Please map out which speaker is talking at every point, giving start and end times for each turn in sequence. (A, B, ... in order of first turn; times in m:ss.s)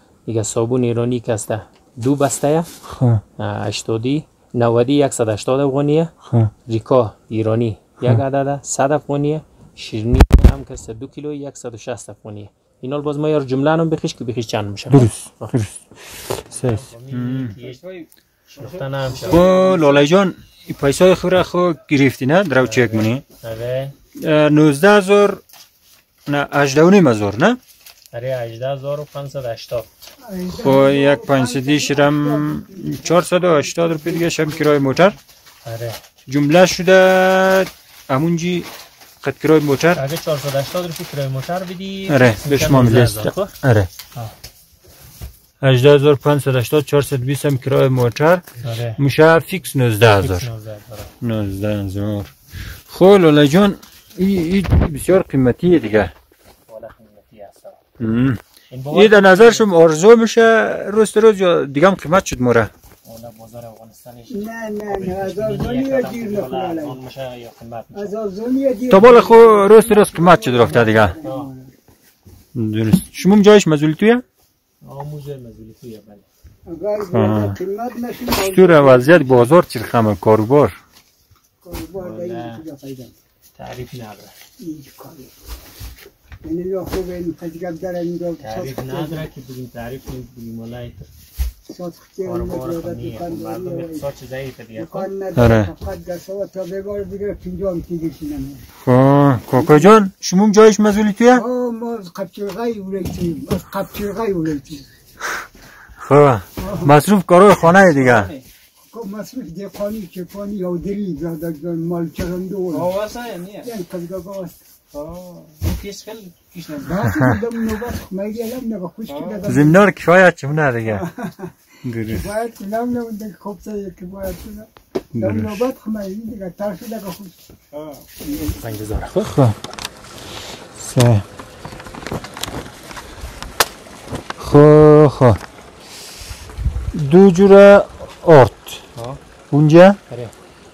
0:00.3-0:02.7 A
0:02.8-0:03.2 B
0:03.4-0:06.1 A
0:06.2-0:06.5 B
0:06.7-0:15.5 A
0:14.9-0:15.8 B
0:16.5-0:19.6 A
0:16.6-0:17.5 B
0:19.2-0:23.2 B
0:22.6-0:24.0 A
0:24.2-0:25.4 B
0:26.3-0:27.6 B
0:28.1-0:29.9 A
0:30.2-0:34.8 C
0:30.5-0:35.2 B
0:35.6-0:36.0 A
0:36.3-0:38.7 B
0:39.2-0:40.0 B
0:39.9-0:43.5 A
0:42.1-0:43.9 B
0:45.6-0:48.5 B
0:48.6-0:49.0 A
0:49.0-0:50.5 B
0:50.0-0:51.1 A
0:51.2-0:52.3 B
0:52.9-0:56.1 B
0:56.7-0:57.8 A
0:58.0-0:58.4 B
0:58.7-0:59.7 A
0:58.9-1:02.7 B
1:03.1-1:08.2 A
1:04.3-1:07.0 C
1:07.9-1:11.7 C
1:08.9-1:11.2 B
1:08.9-1:09.3 A
1:11.2-1:11.5 A
1:12.6-1:14.2 B
1:14.8-1:16.2 A
1:16.7-1:19.3 C
1:17.1-1:17.6 B
1:18.4-1:20.8 B
1:21.6-1:23.1 C
1:22.0-1:22.6 A
1:23.6-1:24.3 A
1:24.6-1:25.3 C
1:26.4-1:29.3 C
1:28.4-1:31.1 A
1:31.7-1:34.0 C
1:32.2-1:35.1 A
1:34.8-1:38.6 C
1:35.4-1:35.7 B
1:38.9-1:41.4 B
1:39.6-1:39.9 C
1:41.3-1:44.9 C
1:46.0-1:48.3 B
1:46.6-1:46.9 C
1:48.9-1:53.0 C
1:52.8-1:53.6 A
1:53.6-1:54.6 C
1:55.0-1:56.7 A
1:56.8-1:59.8 C
1:57.0-1:57.4 B
1:59.4-2:01.0 B
2:00.9-2:01.5 C
2:01.8-2:02.2 B
2:02.1-2:07.4 C
2:05.2-2:05.6 B
2:08.2-2:08.6 C
2:08.5-2:09.3 A
2:09.2-2:09.6 B
2:10.8-2:11.2 B
2:14.4-2:15.4 B
2:16.9-2:18.8 B
2:19.5-2:20.0 B